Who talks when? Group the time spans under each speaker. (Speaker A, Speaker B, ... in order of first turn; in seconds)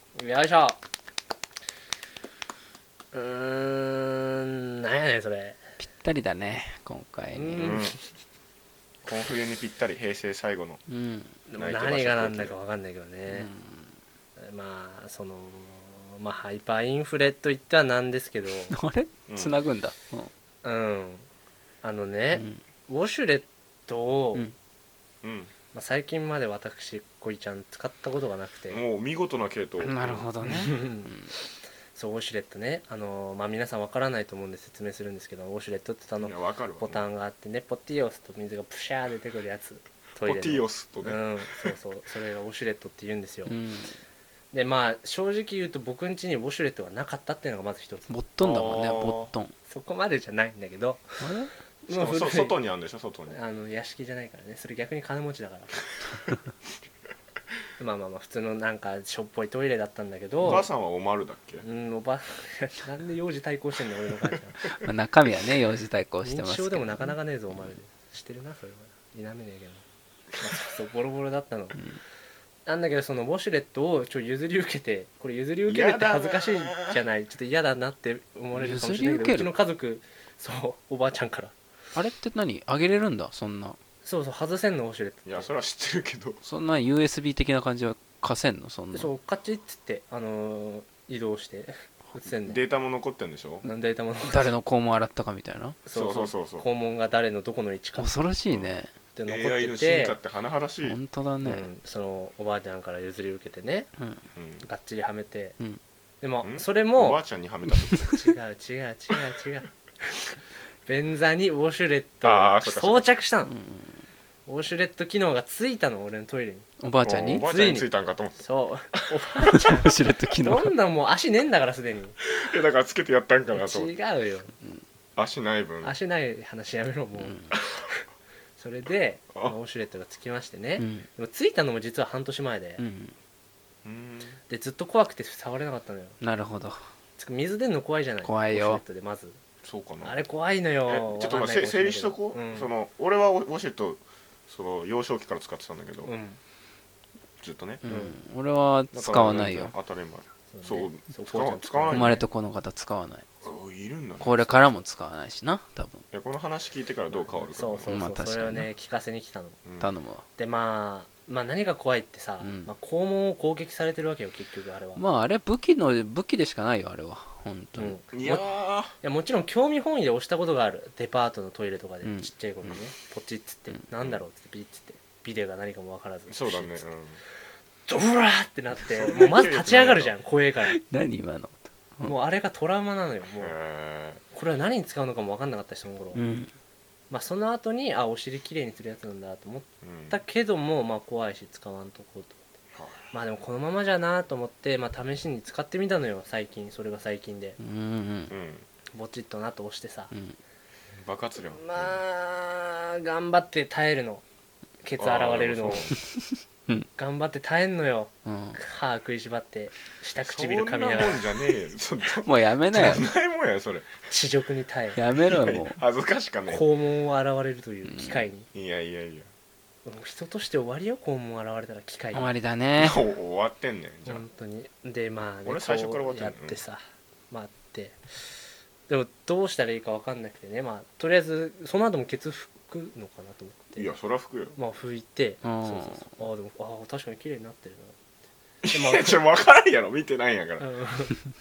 Speaker A: 0.1-0.8, 3.1-5.6, 7.3-8.0, 11.5-13.5, 14.4-18.7, 20.6-21.3, 21.8-24.5, 25.7-28.8, 30.4-31.1, 31.9-43.5, 44.5-49.1, 49.6-51.3, 51.8-52.5, 53.3-55.9, 57.8-60.6, 61.6-64.7, 66.2-69.8, 70.4-71.8, 72.7-81.5, 84.0-85.5, 88.9-92.6, 93.6-94.5, 95.8-98.2, 99.1-100.2, 101.4-103.9, 104.6-105.5, 106.2-107.2, 108.1-110.3, 110.8-113.5, 114.5-116.7, 117.3-122.2, 123.5-124.5, 125.8-128.0, 128.6-132.8, 134.5-136.2, 137.2-139.4, 140.0-142.7, 146.0-146.4, 147.8-148.2, 150.5-152.2, 157.2-159.6, 160.4-165.0, 167.8-176.9, 177.9-180.8, 182.0-183.6, 184.3-186.2, 187.1-192.4, 193.1-197.6, 198.9-200.1, 201.5-204.2, 204.8-205.9, 206.9-211.2, 214.1-215.0, 216.5-218.5, 219.8-222.3, 224.1-233.9, 234.6-238.0, 238.7-239.2, 240.6-241.1
Speaker B: 5.8-7.8, 10.9-11.4, 13.3-13.9, 18.7-20.3, 22.3-22.6, 29.8-31.3, 43.5-44.0, 48.1-49.5, 51.2-51.5, 64.7-67.7, 78.5-79.5, 81.9-83.8, 86.4-89.1, 94.3-95.8, 98.0-98.9, 100.8-101.7, 104.0-104.3, 107.9-108.2, 113.5-114.1, 116.8-117.5, 119.4-120.7, 127.2-127.5, 130.8-131.1, 132.8-133.1, 136.2-136.8, 138.2-138.8, 147.8-149.7, 151.9-153.2, 154.2-156.0, 157.9-158.7, 159.8-160.2, 162.4-162.7, 164.9-168.0, 172.0-172.7, 180.6-182.2, 186.1-186.5, 197.6-198.3, 200.1-200.4, 208.2-208.6, 212.2-213.1, 214.9-215.8, 217.8-218.3, 222.1-223.0, 235.4-236.1
Speaker C: 7.6-8.0, 9.0-10.8, 11.6-12.6, 19.3-19.5, 25.2-25.5, 28.7-30.2, 36.2-37.0, 40.2-41.7, 48.5-49.2, 51.9-53.3, 60.4-61.6, 75.7-77.0, 85.2-86.4, 92.5-93.6, 95.9-96.7, 99.3-101.0, 104.3-104.6, 106.4-108.2, 112.2-113.1, 117.0-118.4, 118.9-119.8, 122.2-123.9, 125.2-125.9, 133.8-134.4, 139.6-140.1, 140.9-146.1, 147.4-147.8, 148.9-152.2, 153.4-154.8, 156.1-158.0, 168.1-168.9, 176.3-177.2, 178.9-180.1, 183.4-184.2, 189.8-190.2, 192.7-193.1, 198.3-198.7, 201.0-202.0, 205.0-205.9, 210.2-213.9, 215.2-216.6, 218.5-219.3, 222.8-224.2, 225.4-226.6, 233.8-234.6, 238.6-240.7